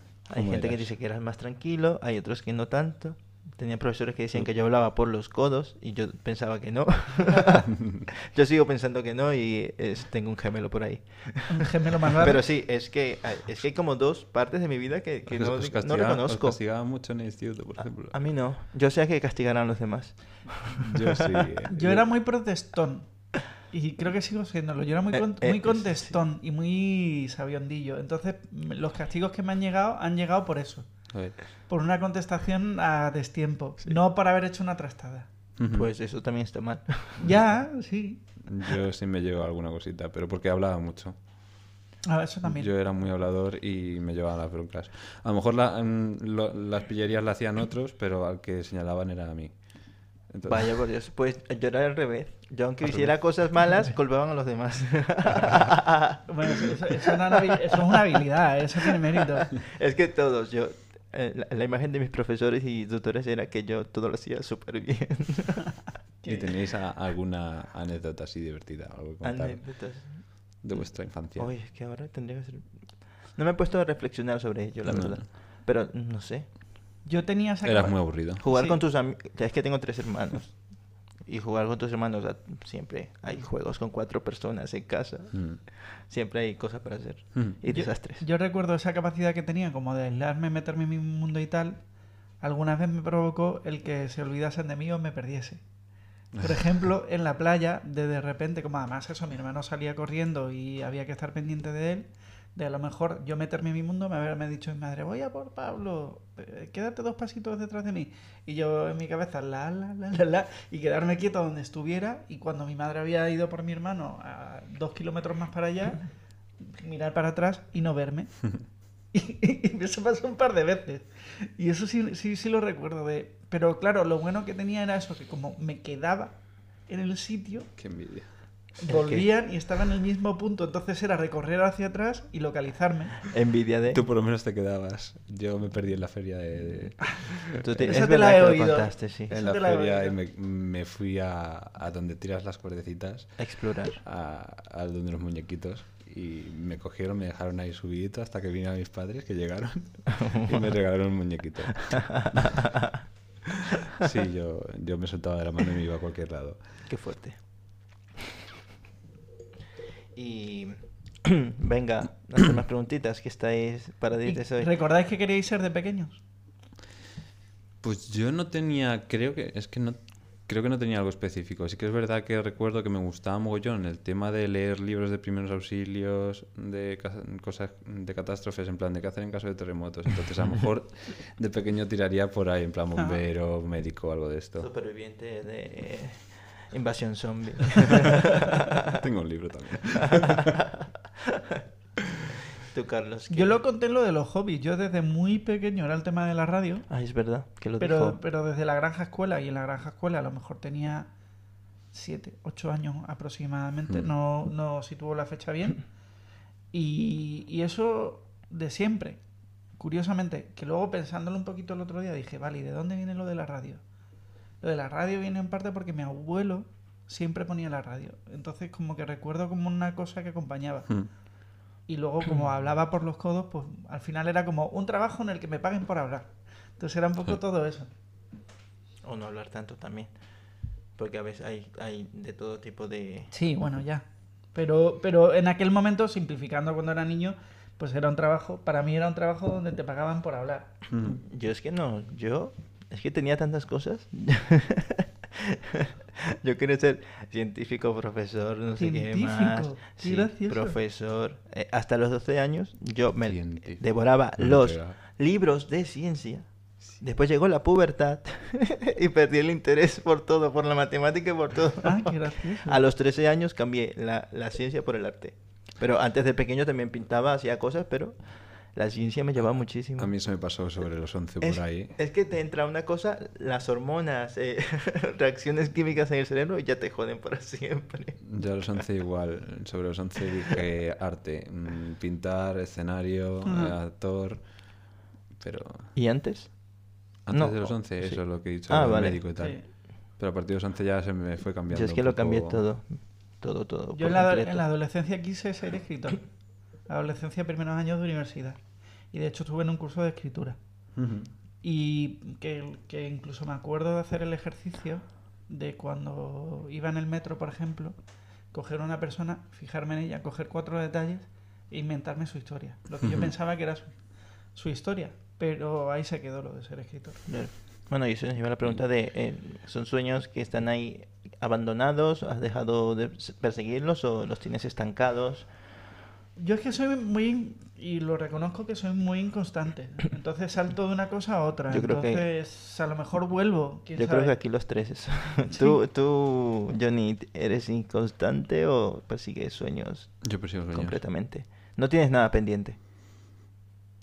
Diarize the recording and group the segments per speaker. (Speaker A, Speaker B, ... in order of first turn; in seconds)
Speaker A: 0.2-16.6, 18.1-21.3, 25.1-26.2, 35.7-37.3, 50.5-58.2, 58.8-65.7, 69.2-76.5, 78.4-80.6, 81.2-88.2, 128.9-129.3, 133.3-134.0, 137.6-139.3, 143.4-144.0, 151.9-153.0, 156.9-157.4, 160.1-164.7, 184.6-188.9, 189.9-191.6, 192.6-193.6, 196.9-198.2, 229.0-230.1, 231.0-233.3, 241.1-270.1, 271.4-278.4, 285.9-289.2, 291.7-294.6, 317.3-325.5, 331.7-332.3, 333.9-342.8
Speaker B: 0.3-0.9, 7.7-8.1, 15.3-18.2, 20.8-22.1, 31.1-31.5, 35.6-35.9, 38.5-41.2, 42.4-49.6, 50.3-50.8, 52.9-53.1, 66.3-69.6, 70.6-71.5, 74.9-75.2, 77.6-78.4, 85.3-85.6, 127.8-128.3, 133.9-137.7, 139.3-152.7, 153.9-156.8, 167.8-184.7, 188.9-190.5, 240.9-241.2, 253.3-255.0, 270.0-271.9, 278.2-284.8, 285.4-285.9, 287.2-292.6, 301.0-301.3, 313.0-313.3, 340.2-341.0
Speaker C: 11.5-12.4, 21.7-30.9, 31.5-35.3, 37.2-38.2, 42.0-42.7, 56.2-59.6, 66.2-66.5, 77.0-78.8, 87.7-91.8, 92.4-95.6, 96.4-116.0, 116.6-118.6, 119.1-127.8, 128.8-133.3, 137.8-140.2, 164.2-166.2, 193.3-196.9, 197.8-201.1, 201.9-205.9, 206.7-209.2, 209.8-213.8, 214.6-221.1, 221.9-227.9, 233.3-240.7, 248.8-250.8, 261.8-262.8, 283.4-283.8, 289.4-289.6, 293.9-296.3, 296.9-298.6, 299.1-300.6, 301.6-308.0, 308.5-314.0, 314.6-317.2, 326.4-334.4, 335.5-335.8